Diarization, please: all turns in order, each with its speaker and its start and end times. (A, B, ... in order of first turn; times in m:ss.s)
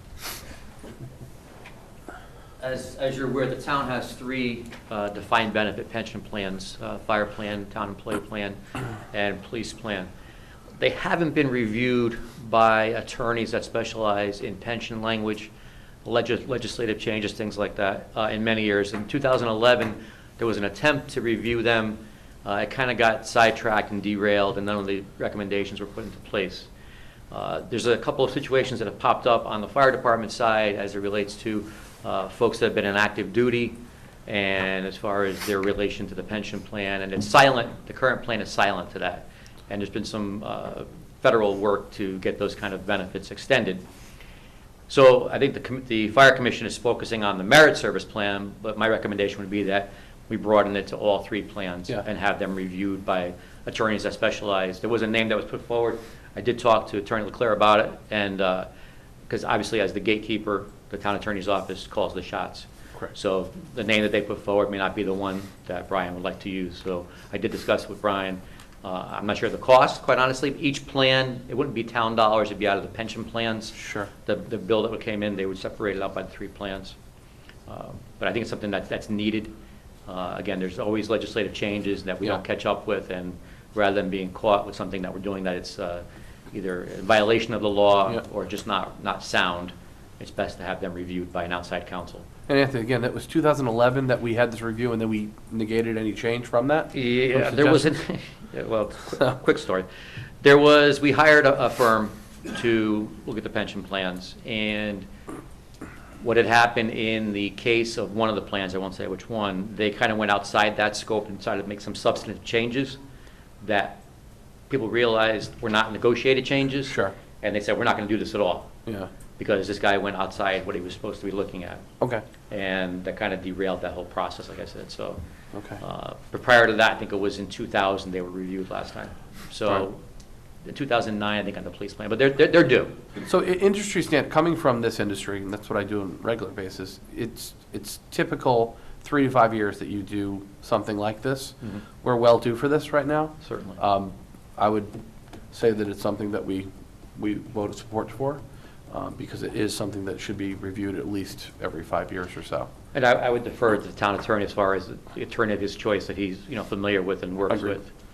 0:02.6-0:08.6 A
0:09.1-0:10.1 A
0:10.8-0:15.5 A
0:16.0-0:26.7 A
0:27.3-0:43.8 A
0:44.9-0:58.7 A
0:59.3-1:16.9 A
1:13.7-1:14.1 B
1:17.7-1:19.5 A
1:20.1-1:32.2 A
1:32.5-1:37.9 B
1:36.9-1:39.9 A
1:40.4-1:45.0 A
1:46.2-1:53.0 A
1:53.6-1:54.0 A
1:54.7-1:58.7 A
1:56.9-1:57.1 B
1:58.8-1:59.1 B
1:59.4-2:01.8 A
2:02.5-2:05.2 A
2:05.5-2:05.8 B
2:05.8-2:10.0 A
2:10.6-2:13.0 A
2:13.2-2:25.0 B
2:23.4-2:23.8 A
2:25.5-2:32.7 B
2:32.9-2:37.9 A
2:37.5-2:37.8 B